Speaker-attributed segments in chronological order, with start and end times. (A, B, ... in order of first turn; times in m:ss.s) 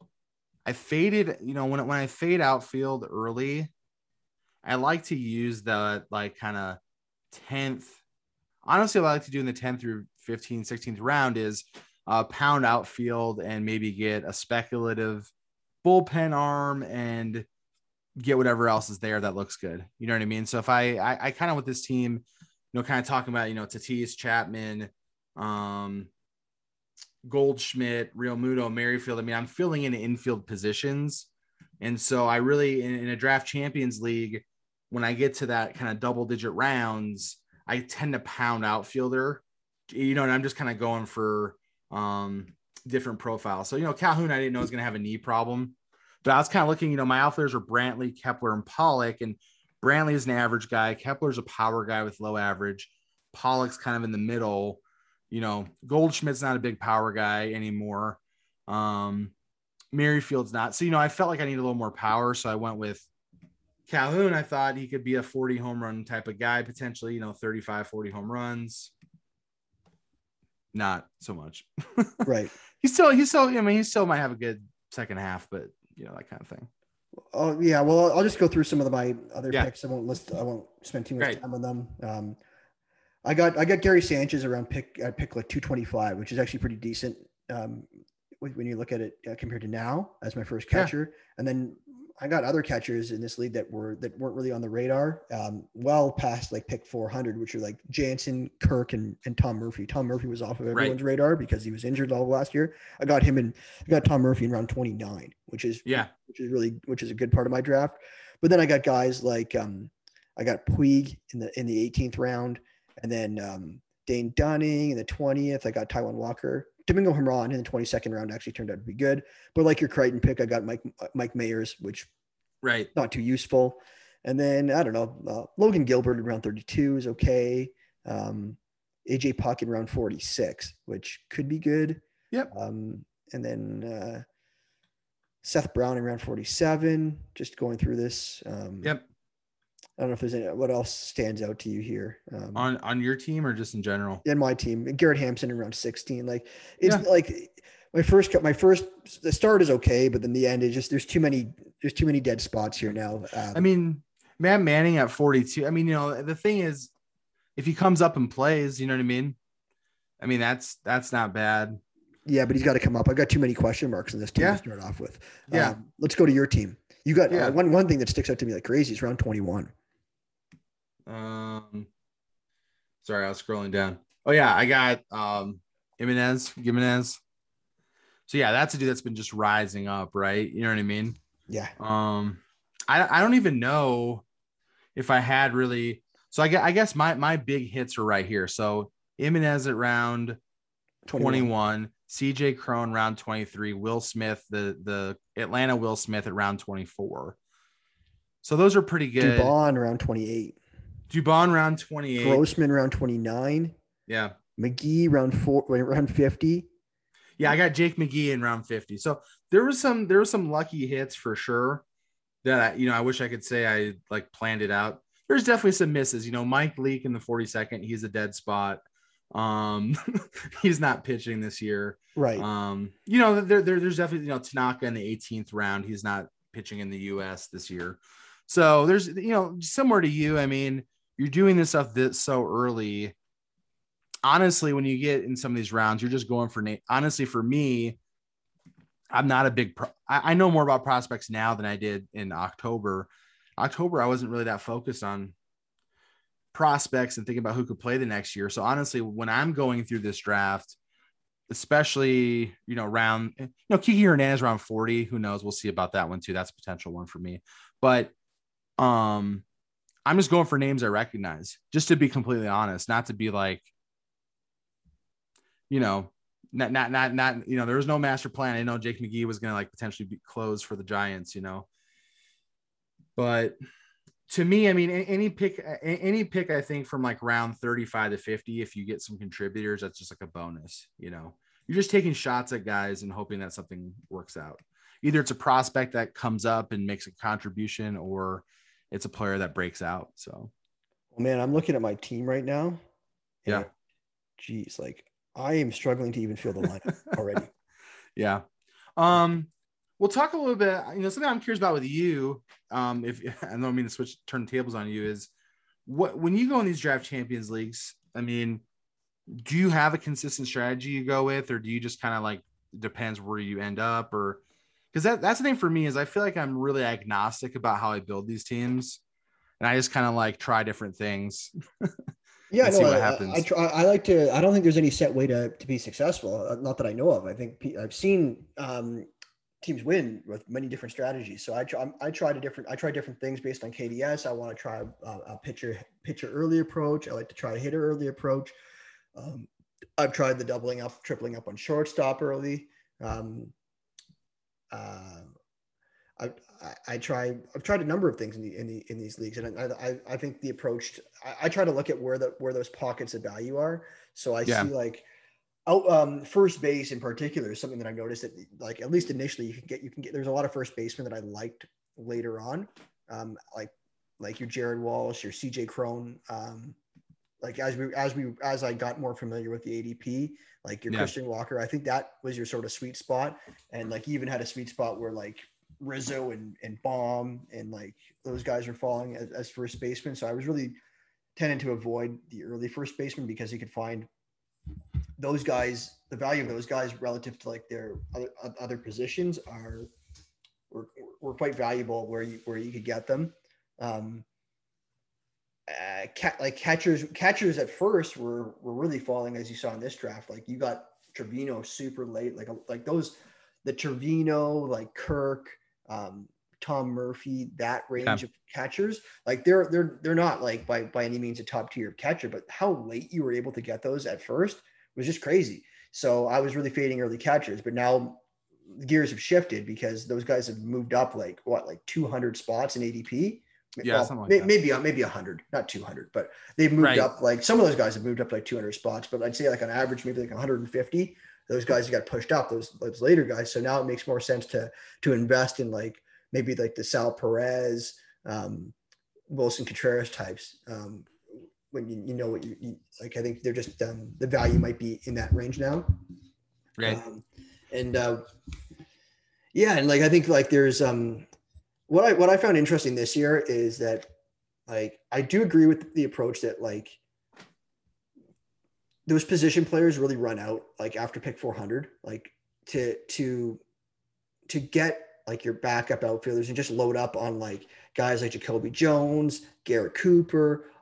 0:00.6-0:03.7 A
0:04.6-0:06.8 A
0:07.3-0:08.0 A
0:08.7-0:15.3 A
0:15.8-0:17.5 A
0:18.2-0:26.1 A
0:27.2-0:31.3 A
0:31.8-0:59.3 A
0:59.9-1:03.1 A
1:03.9-1:08.9 A
1:10.7-1:12.3 A
1:12.2-1:12.6 B
1:12.8-1:16.7 A
1:17.3-1:22.4 B
1:23.2-1:27.9 B
1:28.4-2:02.1 B
2:02.6-2:02.9 A
2:02.9-2:14.2 B
2:15.4-2:19.0 B
2:20.0-2:22.7 B
2:22.6-2:24.2 A
2:24.2-2:33.7 B
2:33.5-2:36.9 A
2:37.6-2:39.4 A
2:40.2-2:41.8 A
2:42.3-2:49.7 B
2:44.4-2:44.6 A
2:45.5-2:45.8 A
2:47.3-2:47.6 A
2:51.1-2:51.9 A
2:53.0-2:57.2 A
2:58.3-3:01.2 A
3:01.5-3:01.7 B
3:01.8-3:04.2 A
3:05.0-3:10.4 A
3:11.0-3:11.5 B
3:11.2-3:17.4 A
3:18.4-3:19.5 A
3:19.2-3:20.6 B
3:21.1-3:22.4 A
3:22.2-3:23.8 B
3:24.1-3:24.3 A
3:24.6-3:26.7 B
3:27.4-3:31.8 A
3:32.4-3:38.8 A
3:39.3-3:53.2 A
3:42.2-3:42.5 B
3:54.2-3:58.0 A
3:59.1-4:05.3 A
4:06.5-4:10.8 A
4:11.5-4:18.1 A
4:18.8-4:19.4 A
4:20.1-4:23.7 A
4:25.7-4:31.7 A
4:33.2-4:33.6 A
4:34.3-4:50.5 A
4:51.2-4:52.8 B
4:54.4-4:57.5 B
4:58.2-4:58.4 A
4:59.0-5:05.3 A
5:05.9-5:08.6 A
5:09.3-5:14.4 A
5:14.9-5:19.0 A
5:19.6-5:22.0 A
5:22.5-5:29.1 B
5:22.6-5:23.5 A
5:29.6-5:38.5 B
5:39.2-5:43.5 B
5:44.7-5:45.3 B
5:46.2-5:55.1 B
5:54.4-5:54.7 A
5:55.7-6:06.8 B
6:07.4-6:20.8 B
6:21.4-6:24.1 B
6:25.2-6:29.9 B
6:30.7-6:34.2 B
6:35.7-7:18.8 B
7:03.8-7:04.5 A
7:06.8-7:07.1 A
7:19.3-7:21.1 B
7:21.7-7:26.0 B
7:26.8-7:28.2 B
7:29.5-7:31.3 B
7:31.9-7:34.1 B
7:34.7-7:37.0 B
7:39.1-7:43.6 B
7:44.5-7:50.7 B